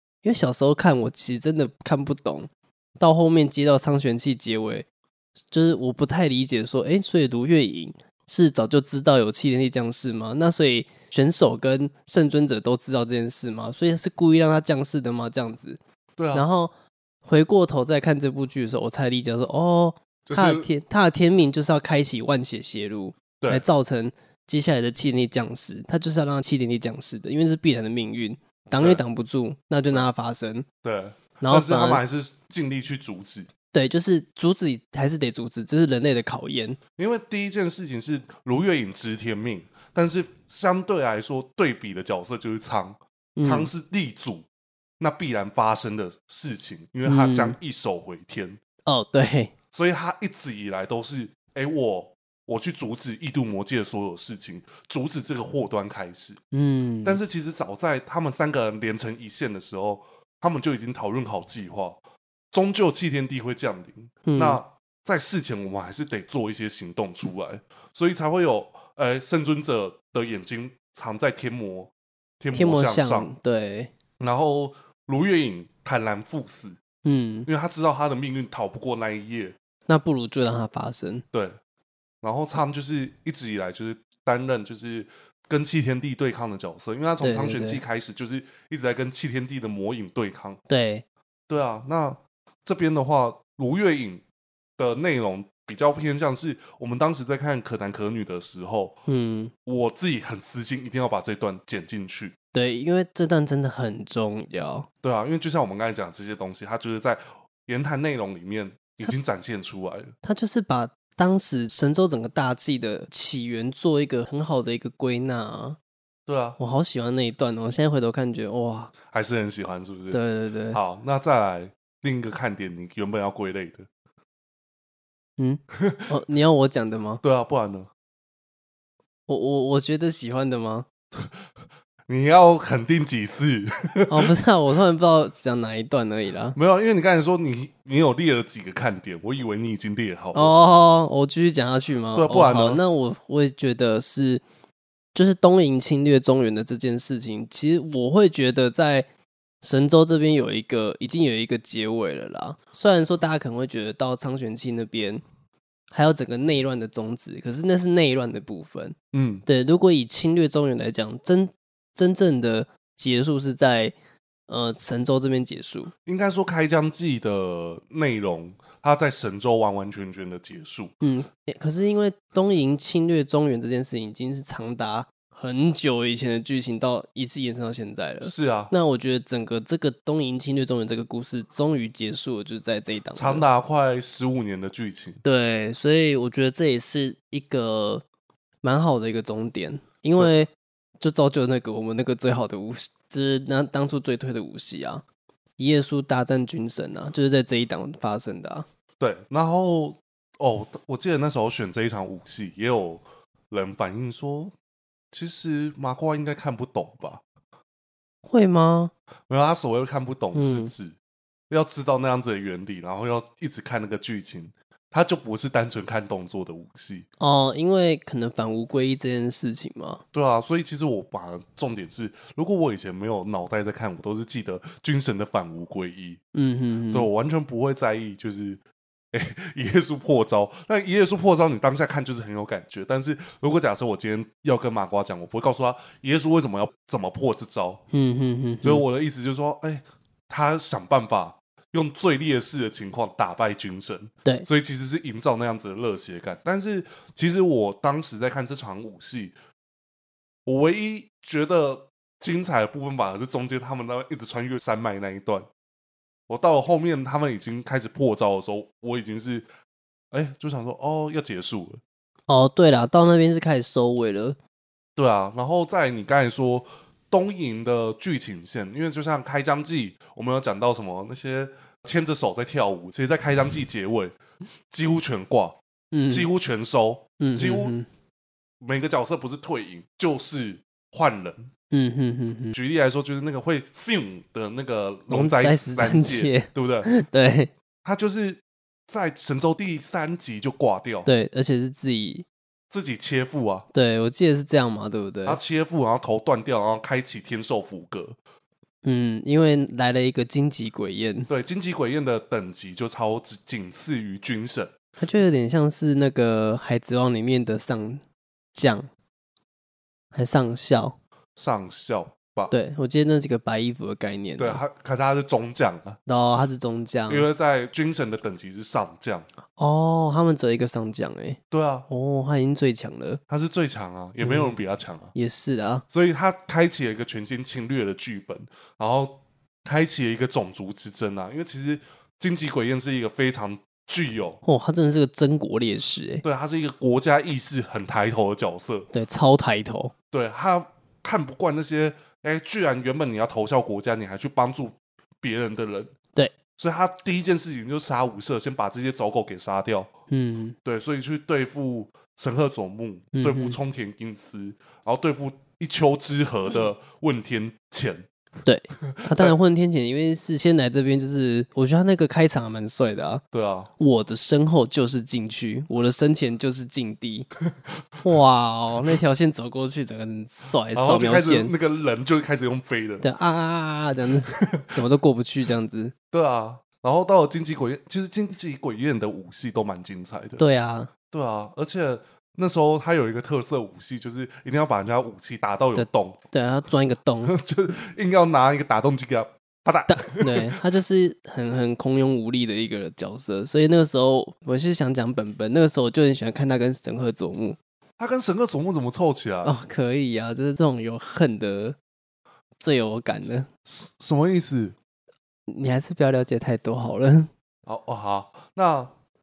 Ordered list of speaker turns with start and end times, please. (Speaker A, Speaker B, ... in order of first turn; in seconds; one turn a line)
Speaker A: 0.2-4.9
Speaker A: 5.5-15.8
Speaker B: 16.2-16.4
Speaker A: 16.3-16.7
Speaker A: 17.2-30.6
Speaker B: 20.2-20.7
Speaker B: 23.4-23.6
Speaker B: 28.8-29.0
Speaker B: 30.8-33.5
Speaker A: 31.4-32.0
Speaker A: 33.7-36.8
Speaker B: 37.0-44.5
Speaker A: 43.4-43.7
Speaker B: 45.0-48.6
Speaker A: 47.0-47.6
Speaker A: 48.9-49.5
Speaker B: 49.7-56.4
Speaker A: 56.5-57.2
Speaker B: 57.0-62.0
Speaker B: 62.5-73.3
Speaker A: 64.2-64.6
Speaker A: 72.5-73.9
Speaker B: 74.2-76.8
Speaker A: 77.0-77.5
Speaker B: 77.5-79.5
Speaker A: 79.9-81.2
Speaker B: 81.3-81.6
Speaker B: 82.2-90.6
Speaker A: 87.2-87.8
Speaker A: 90.7-91.0
Speaker B: 91.5-94.2
Speaker B: 94.8-99.0
Speaker A: 99.1-99.5
Speaker B: 99.7-102.3
Speaker A: 102.5-104.9
Speaker B: 105.0-110.1
Speaker A: 110.2-115.8
Speaker B: 116.3-116.6
Speaker A: 116.6-118.9
Speaker B: 119.1-120.2
Speaker A: 120.1-120.8
Speaker B: 120.7-123.9
Speaker A: 125.4-127.2
Speaker B: 125.7-126.0
Speaker B: 127.2-127.9
Speaker A: 129.3-130.9
Speaker B: 132.1-134.3
Speaker A: 134.1-136.6
Speaker B: 136.5-140.5
Speaker A: 140.3-144.4
Speaker B: 142.1-142.8
Speaker A: 145.1-149.1
Speaker A: 149.6-155.2
Speaker A: 155.9-163.9
Speaker B: 159.1-159.4
Speaker A: 164.5-165.9
Speaker B: 166.1-170.9
Speaker A: 171.0-183.4
Speaker B: 178.2-178.7
Speaker B: 183.2-185.2
Speaker A: 185.2-188.0
Speaker A: 188.6-195.0
Speaker A: 195.6-198.7
Speaker B: 199.0-204.5
Speaker B: 205.1-207.2
Speaker A: 208.2-208.9
Speaker B: 209.3-210.9
Speaker A: 210.3-210.7
Speaker B: 211.5-217.1
Speaker A: 217.2-220.0
Speaker B: 220.1-226.2
Speaker A: 226.3-227.1
Speaker B: 226.9-228.6
Speaker B: 229.1-237.8
Speaker A: 237.9-238.8
Speaker B: 238.6-249.3
Speaker B: 250.4-255.5
Speaker B: 256.3-259.5
Speaker B: 260.1-261.8
Speaker A: 262.3-264.4
Speaker B: 264.9-274.2
Speaker B: 274.7-275.6
Speaker A: 275.9-276.3
Speaker B: 276.1-277.7
Speaker A: 277.2-277.9
Speaker B: 278.6-281.5
Speaker A: 281.7-282.6
Speaker B: 282.5-286.9
Speaker A: 285.1-287.5
Speaker B: 287.8-291.1
Speaker A: 291.1-292.2
Speaker B: 292.7-293.6
Speaker A: 293.7-295.4
Speaker B: 295.2-298.2
Speaker A: 298.8-301.3
Speaker B: 301.3-304.7
Speaker A: 305.0-308.0
Speaker A: 308.5-308.9
Speaker A: 310.1-311.0
Speaker B: 311.4-312.5
Speaker A: 312.5-314.6
Speaker B: 314.4-316.0
Speaker A: 316.1-317.3
Speaker B: 317.1-319.3
Speaker A: 319.6-323.2
Speaker B: 321.5-321.9
Speaker B: 323.3-325.1
Speaker A: 324.2-324.5
Speaker A: 325.1-325.8
Speaker B: 325.9-334.4
Speaker A: 334.4-336.2
Speaker B: 336.2-338.9
Speaker A: 338.9-339.9
Speaker B: 340.1-345.9
Speaker B: 346.6-349.9
Speaker A: 350.1-350.6
Speaker B: 350.6-358.1
Speaker A: 353.1-353.6
Speaker A: 358.4-363.2
Speaker B: 358.8-359.3
Speaker B: 363.3-363.7
Speaker A: 363.8-367.3
Speaker A: 368.0-371.5
Speaker B: 370.7-373.0
Speaker A: 373.0-375.9
Speaker B: 374.3-374.7
Speaker B: 376.1-380.4
Speaker A: 380.4-380.9
Speaker B: 381.1-386.2
Speaker A: 385.7-387.3
Speaker B: 387.2-390.6
Speaker A: 389.9-397.6
Speaker B: 398.0-399.5
Speaker A: 399.4-401.8
Speaker A: 402.6-403.5
Speaker B: 403.6-404.8
Speaker A: 405.5-407.3
Speaker B: 407.6-408.9